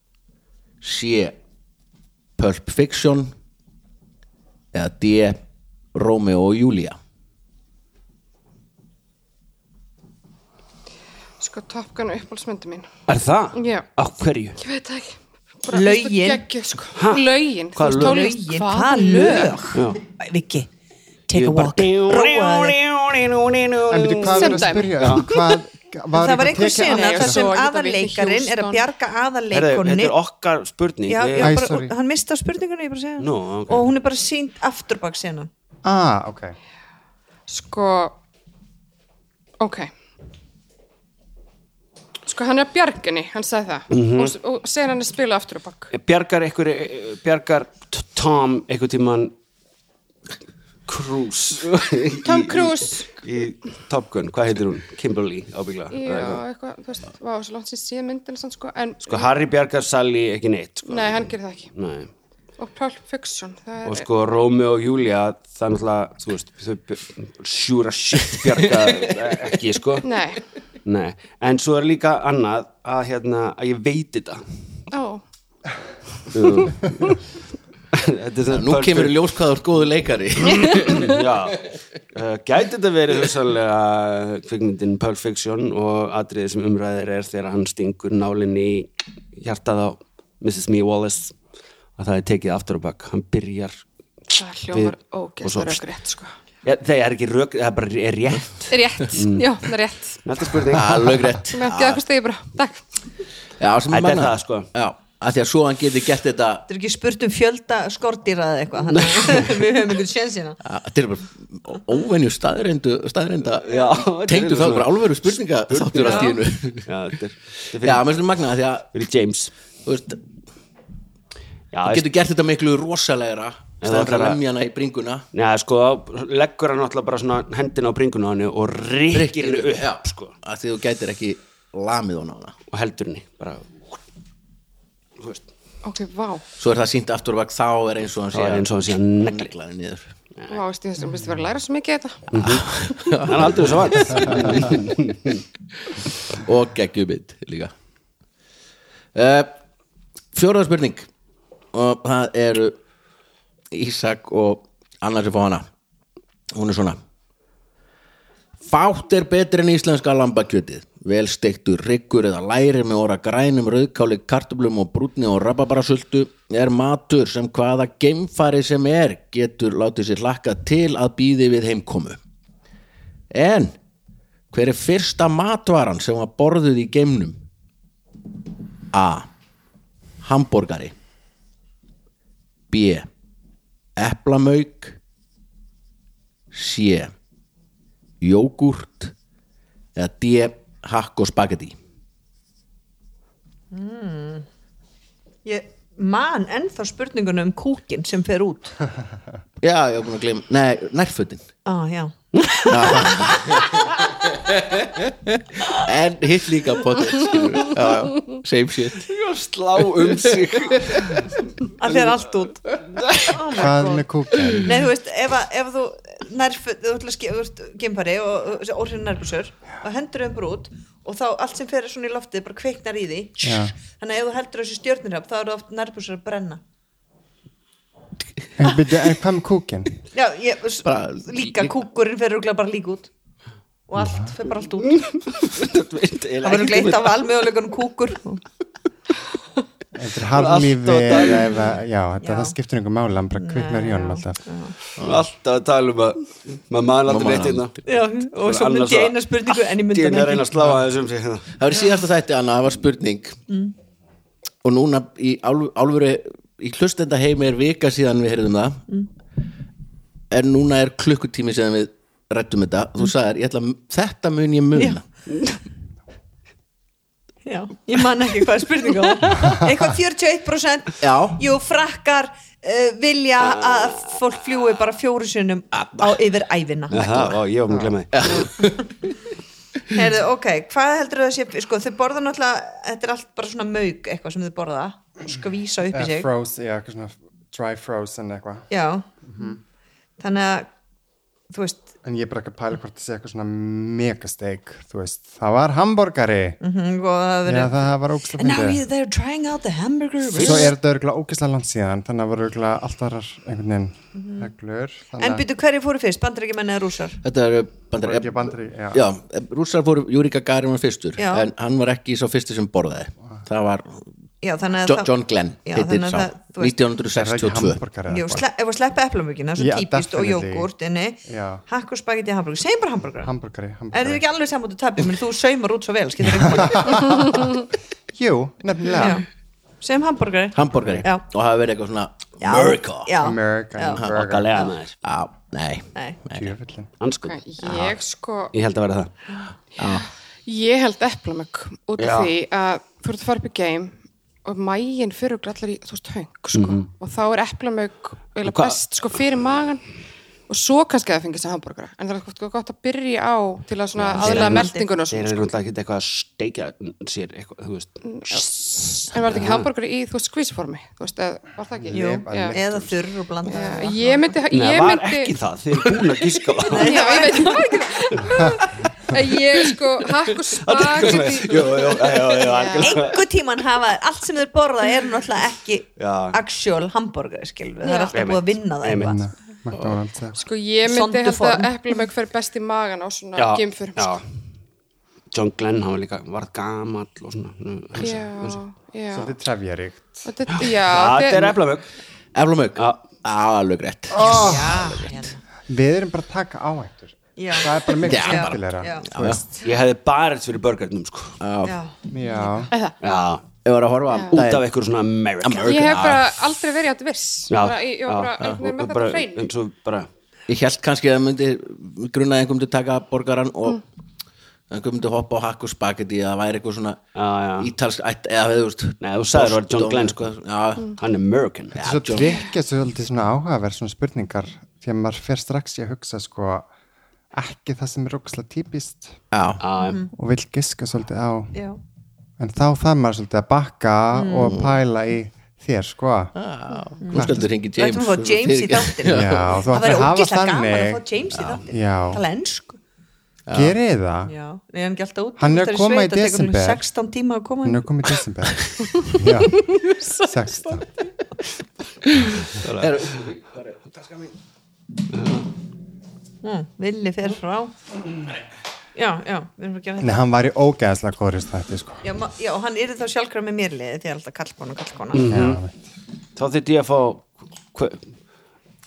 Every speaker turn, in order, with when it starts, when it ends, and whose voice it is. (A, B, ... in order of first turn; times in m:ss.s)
0:00.8-0:01.4 A
0:02.4-0:03.3 A
0:04.7-0:05.4 A
0:05.9-0:07.0 A
0:11.4-0:13.0 B
0:13.1-0:14.6 C
0:13.5-0:13.9 B
0:14.6-0:19.6 B
0:15.7-0:16.4 D
0:16.9-0:18.3 C
0:17.8-0:20.7 D
0:19.7-0:20.0 C
0:21.3-0:22.8 D
0:21.3-0:25.3 C
0:23.8-0:27.5 E
0:24.4-0:25.6 B
0:26.1-0:30.2 D
0:26.6-0:28.8 B
0:29.5-0:31.6 C
0:31.0-0:35.5 D
0:31.4-0:31.9 E
0:33.2-0:33.9 C
0:35.8-0:36.6 E
0:37.5-0:38.2 B
0:39.6-0:39.9 B
0:42.2-0:45.9 B
0:43.9-0:44.3 C
0:45.9-0:49.3 C
0:50.9-0:56.4 C
0:52.2-0:53.2 B
0:55.9-0:59.3 B
0:59.0-1:02.1 C
1:00.9-1:01.7 B
1:02.6-1:04.1 B
1:03.8-1:10.0 C
1:10.0-1:10.4 B
1:10.8-1:14.4 C
1:14.9-1:15.2 B
1:16.3-1:17.2 C
1:17.9-1:19.1 C
1:18.5-1:21.2 A
1:20.5-1:21.6 C
1:22.1-1:31.4 C
1:32.0-1:33.8 C
1:34.3-1:36.4 B
1:34.7-1:35.8 C
1:36.6-1:39.5 C
1:38.7-1:40.2 B
1:40.2-1:41.2 C
1:40.7-1:42.0 A
1:41.5-1:42.8 B
1:43.6-1:46.7 A
1:43.9-1:44.7 C
1:46.7-1:50.6 D
1:48.9-1:49.6 C
1:50.6-1:56.9 A
1:53.6-1:55.2 C
1:55.7-1:58.1 C
1:56.0-1:56.4 D
1:57.8-1:58.9 A
1:58.9-1:59.5 C
1:59.8-2:00.2 A
2:01.7-2:02.1 C
2:01.8-2:05.3 A
2:03.8-2:04.4 C
2:05.3-2:10.4 C
2:09.1-2:12.6 A
2:12.7-2:13.8 C
2:15.2-2:15.5 C
2:15.8-2:16.4 B
2:16.6-2:20.1 A
2:18.3-2:19.5 C
2:20.3-2:20.6 C
2:20.5-2:22.3 B
2:22.3-2:22.7 C
2:22.4-2:24.8 A
2:23.2-2:25.4 C
2:26.3-2:27.7 A
2:29.1-2:29.5 A
2:30.3-2:31.1 A
2:31.7-2:32.8 A
2:33.7-2:35.7 A
2:36.5-2:37.0 A
2:38.6-2:52.2 A
2:53.3-2:53.8 A
2:54.5-2:57.4 A
2:58.9-2:59.3 A
3:00.2-3:00.9 A
3:02.7-3:03.1 A
3:04.0-3:05.0 A
3:06.5-3:07.1 A
3:08.2-3:09.1 A
3:10.0-3:11.7 A
3:13.7-3:14.5 D
3:15.4-3:18.8 D
3:19.6-3:21.4 A
3:21.6-3:23.2 D
3:22.4-3:23.1 C
3:22.7-3:29.1 A
3:27.2-3:27.7 C
3:29.0-3:32.1 C
3:30.0-3:31.3 A
3:31.8-3:32.7 D
3:32.8-3:33.6 C
3:33.2-3:34.0 D
3:33.5-3:34.8 E
3:34.6-3:46.6 D
3:43.4-3:43.7 E
3:48.6-3:49.9 E
3:50.1-3:53.1 D
3:50.8-3:51.7 A
3:53.9-3:55.1 D
3:54.0-3:54.3 E
3:55.0-3:57.2 C
3:56.4-3:58.4 D
3:59.9-4:04.4 E
4:00.3-4:01.7 C
4:02.2-4:02.5 D
4:03.4-4:04.7 D
4:05.0-4:05.3 A
4:05.0-4:07.8 C
4:07.0-4:07.7 A
4:07.8-4:10.5 D
4:08.4-4:11.5 C
4:11.6-4:13.4 A
4:14.6-4:18.8 A
4:20.3-4:25.1 A
4:27.4-4:37.4 D
4:31.0-4:31.4 A
4:33.6-4:33.8 C
4:35.7-4:36.2 A
4:36.9-4:38.1 C
4:37.7-4:38.0 E
4:38.1-4:39.0 A
4:39.9-4:46.3 D
4:45.9-4:48.7 E
4:48.7-4:49.0 D
4:49.2-4:49.6 E
4:50.2-4:50.7 D
4:51.5-4:51.9 D
4:52.0-4:56.6 E
4:56.6-5:00.7 D
4:57.4-4:58.8 E
5:00.3-5:05.4 E
5:04.1-5:04.5 D
5:05.2-5:07.2 D
5:07.2-5:14.0 A
5:08.0-5:09.0 E
5:11.2-5:11.5 D
5:14.4-5:15.1 D
5:14.8-5:17.8 A
5:15.6-5:16.8 D
5:17.1-5:18.4 E
5:18.1-5:23.3 D
5:19.6-5:20.7 E
5:21.2-5:21.6 E
5:23.2-5:24.2 E
5:23.9-5:27.3 D
5:26.2-5:27.4 E
5:28.1-5:29.2 E
5:29.0-5:29.2 D
5:29.8-5:31.2 D
5:30.5-5:33.1 A
5:30.6-5:31.1 E
5:32.4-5:34.0 D
5:33.2-5:34.5 E
5:34.1-5:35.0 C
5:35.0-5:36.5 A
5:35.9-5:36.2 D
5:36.3-5:36.9 E
5:37.0-5:38.0 C
5:37.2-5:38.5 B
5:38.5-5:39.1 C
5:39.8-5:40.1 A
5:40.4-5:43.9 B
5:42.0-5:42.3 C
5:44.4-5:49.8 B
5:46.5-5:46.9 C
5:48.4-5:48.8 C
5:50.5-5:55.5 B
5:53.9-5:59.7 C
5:54.1-5:54.9 D
5:58.1-6:02.6 B
6:01.8-6:03.0 E
6:01.9-6:04.4 D
6:03.5-6:05.4 B
6:04.5-6:07.2 C
6:06.6-6:08.5 D
6:06.7-6:12.9 B
6:08.1-6:08.4 C
6:10.6-6:13.2 C
6:12.8-6:19.2 D
6:16.0-6:16.4 C
6:17.8-6:18.2 B
6:18.1-6:19.1 C
6:18.9-6:20.4 E
6:20.3-6:24.2 B
6:20.8-6:21.7 D
6:23.4-6:24.2 C
6:25.3-6:28.6 C
6:28.0-6:29.3 B
6:29.1-6:30.3 E
6:30.2-6:31.6 B
6:30.5-6:31.9 C
6:32.3-6:35.1 A
6:32.8-6:33.0 C
6:34.1-6:34.9 E
6:34.2-6:35.4 D
6:35.7-6:39.4 E
6:37.4-6:39.1 D
6:38.0-6:39.4 A
6:39.6-6:41.4 C
6:41.4-6:41.8 A
6:41.6-6:41.9 D
6:42.1-6:42.7 E
6:42.7-6:43.0 B
6:43.0-6:43.5 C
6:43.6-6:44.7 A
6:44.1-6:44.4 B
6:44.3-6:45.8 C
6:45.4-6:46.2 A
6:45.6-6:49.5 B
6:47.5-6:50.1 C
6:50.5-6:53.8 A
6:54.7-6:57.0 A
6:57.1-6:57.7 C
6:57.6-7:01.0 A
6:59.0-7:00.3 C
7:01.0-7:01.8 C
7:01.7-7:02.4 A
7:01.8-7:06.7 E
7:07.3-7:09.2 E
7:09.3-7:09.6 A
7:09.6-7:10.0 C
7:09.8-7:10.1 D
7:10.1-7:11.6 E
7:11.5-7:11.8 D
7:12.4-7:16.3 E
7:14.1-7:14.6 D
7:16.4-7:19.6 A
7:17.0-7:22.8 D
7:17.1-7:17.5 E
7:19.0-7:21.0 E
7:21.6-7:22.2 E
7:23.5-7:23.7 A
7:23.5-7:24.3 E
7:24.2-7:27.9 D
7:25.4-7:26.8 E
7:27.6-7:30.8 E
7:32.5-7:33.0 C
7:32.8-7:34.3 A
7:35.1-7:35.4 C
7:36.4-7:37.7 D
7:38.9-7:40.2 D
7:40.0-7:42.0 E
7:42.0-7:45.3 D
7:45.1-7:45.6 C
7:45.2-7:45.8 E
7:46.4-7:48.1 C